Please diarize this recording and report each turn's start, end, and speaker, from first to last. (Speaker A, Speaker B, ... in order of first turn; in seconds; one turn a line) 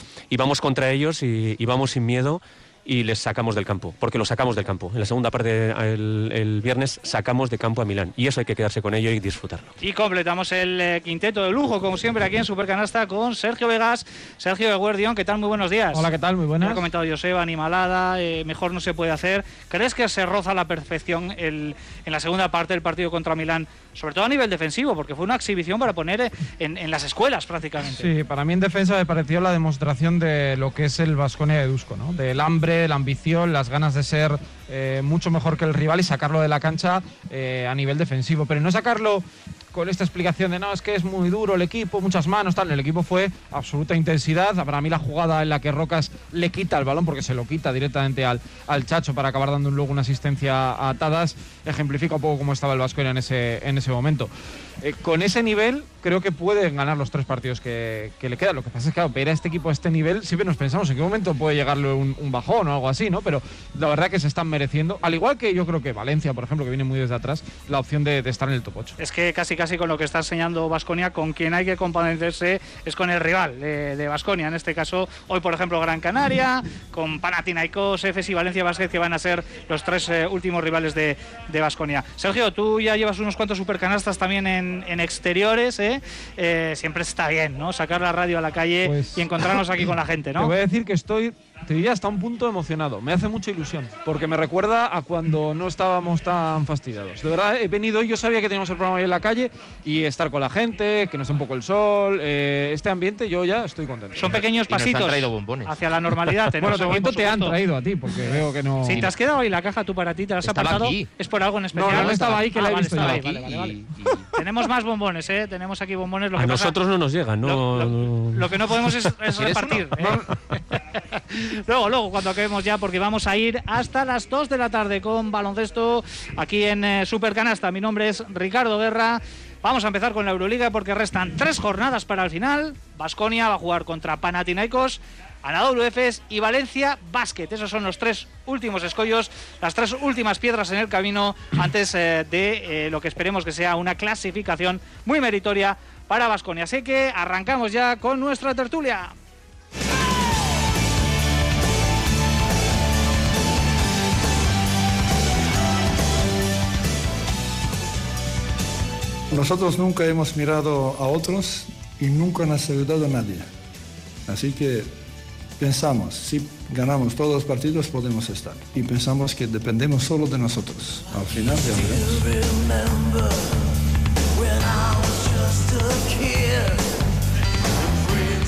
Speaker A: 0.3-9.7
Speaker B: 9.8-16.1
Speaker C: 15.9-16.9
Speaker B: 16.6-28.1
Speaker C: 27.9-54.3
Speaker C: 54.8-69.0
Speaker B: 69.0-90.5
Speaker C: 88.8-89.5
Speaker C: 90.4-104.4
Speaker B: 104.2-107.6
Speaker D: 104.7-105.7
Speaker C: 106.5-109.1
Speaker B: 108.2-113.7
Speaker D: 110.4-111.1
Speaker C: 111.7-113.5
Speaker D: 111.9-114.3
Speaker B: 114.3-116.7
Speaker A: 116.3-119.1
Speaker B: 117.4-149.1
Speaker D: 119.3-119.9
Speaker C: 120.0-120.3
Speaker E: 159.3-163.5
Speaker E: 164.3-164.9
Speaker E: 165.6-172.8
Speaker E: 174.9-176.7